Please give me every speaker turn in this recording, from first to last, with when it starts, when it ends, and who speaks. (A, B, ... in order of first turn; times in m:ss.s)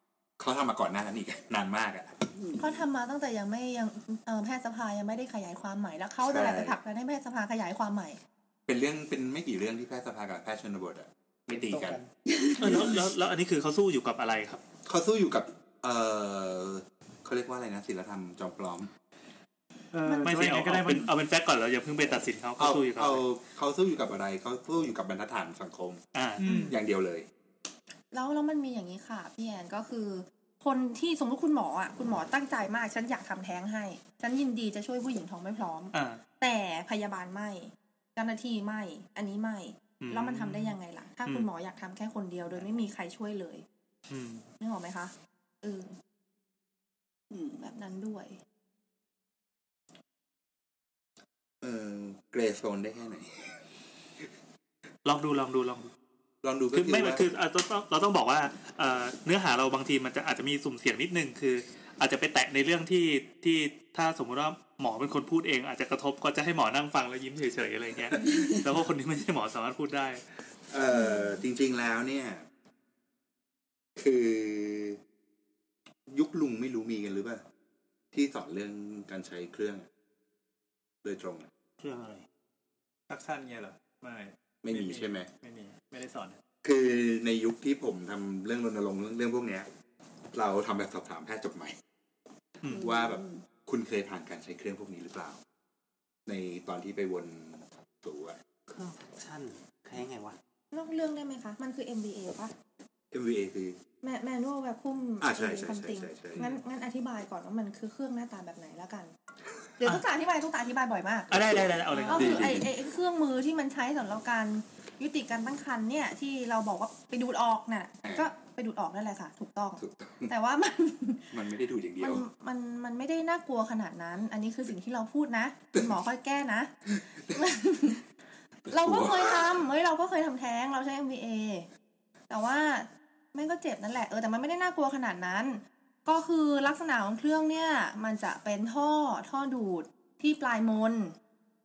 0:00.4-0:02.2 A
0:02.3-0:02.6 B
0:02.6-0:08.2 C
0:06.2-0:06.8 A
0:08.7-0:12.0 A
0:11.5-0:12.1 D
0:12.3-0:13.0 B
0:12.6-0:14.6 E
0:14.8-0:18.9 A
0:19.9-0:21.1 D
0:20.0-0:20.4 C
0:20.2-0:23.2 E
0:22.6-0:26.0 A
0:26.1-0:26.7 E
0:26.4-0:26.8 D
0:26.4-0:26.7 C
0:26.7-0:27.3 A
0:28.1-0:43.6 C
0:35.9-0:36.2 E
0:40.0-0:41.5 E
0:44.1-0:44.4 E
0:44.6-0:46.0 C
0:47.3-0:47.6 B
0:47.6-0:48.4 C
0:51.6-0:53.6 A
0:55.0-0:55.9 E
0:56.4-0:57.2 A
0:56.7-1:10.2 E
1:10.7-1:12.4 A
1:14.0-1:15.0 A
1:16.1-1:17.4 A
1:18.1-1:19.9 A
1:21.0-1:21.5 A
1:21.8-1:22.2 F
1:23.1-1:26.4 D
1:24.6-1:25.3 A
1:26.6-1:29.7 A
1:30.3-1:31.8 A
1:32.6-1:32.9 E
1:32.6-1:33.4 B
1:32.8-1:35.4 A
1:36.2-1:38.4 A
1:38.7-1:40.4 F
1:40.7-1:42.5 C
1:43.1-1:43.8 A
1:44.0-1:49.1 C
1:45.2-1:46.4 A
1:49.8-1:51.3 C
1:51.3-1:52.6 E
1:51.3-1:52.7 A
1:51.9-2:01.4 C
1:58.0-1:58.3 A
1:59.8-2:00.3 A
2:01.3-2:02.2 A
2:02.0-2:06.7 C
2:07.1-2:07.5 A
2:07.3-2:08.0 C
2:08.6-2:09.6 A
2:08.7-2:11.7 C
2:12.3-2:21.1 C